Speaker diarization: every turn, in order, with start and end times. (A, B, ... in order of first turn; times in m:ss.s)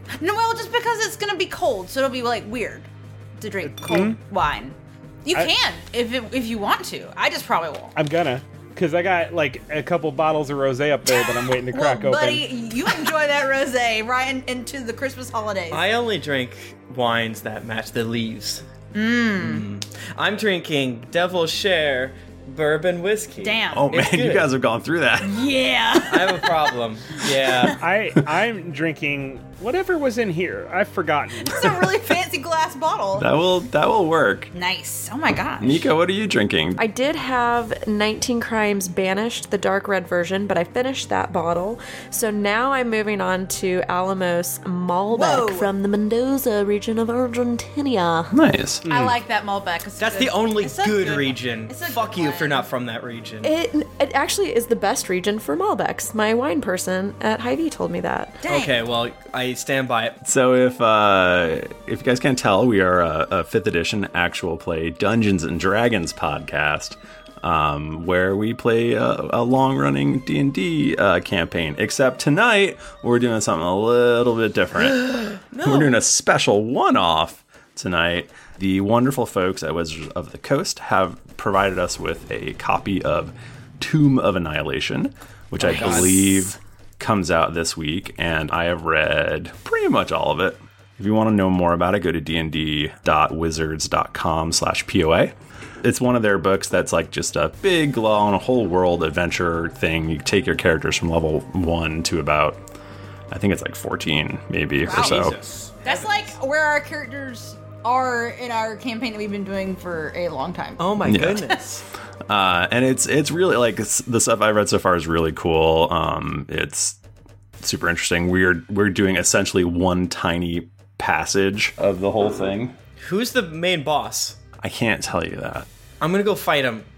0:00.2-0:07.9 A
0:03.6-0:04.2 B
0:08.0-0:12.5 B
0:11.1-0:15.9 A
0:15.7-0:18.6 C
0:18.9-0:19.7 A
0:19.4-0:24.5 C
0:23.4-0:24.0 A
0:23.7-0:25.4 D
0:25.2-0:26.8 A
0:26.1-0:27.8 C
0:27.4-0:27.8 A
0:27.8-0:31.9 B
0:31.4-0:33.3 A
0:33.2-0:34.5 D
0:34.5-0:35.9 A
0:35.6-0:36.8 D
0:36.8-0:48.4 E
0:45.1-0:45.7 A
0:48.3-0:48.9 D
0:48.9-0:49.2 B
0:48.9-0:52.7 A
0:50.0-0:53.5 C
0:53.4-0:58.4 E
0:58.4-0:58.8 A
0:58.4-1:00.2 C
1:00.2-1:42.6 D
1:15.0-1:16.0 C
1:25.6-1:26.4 C
1:43.3-1:45.4 D
1:44.8-1:51.4 A
1:44.9-1:46.3 C
1:50.8-1:51.8 C
1:51.0-1:51.4 D
1:52.3-1:57.0 D
1:57.6-2:02.7 D
2:03.0-2:04.4 C
2:04.6-2:05.7 D
2:06.0-2:06.9 C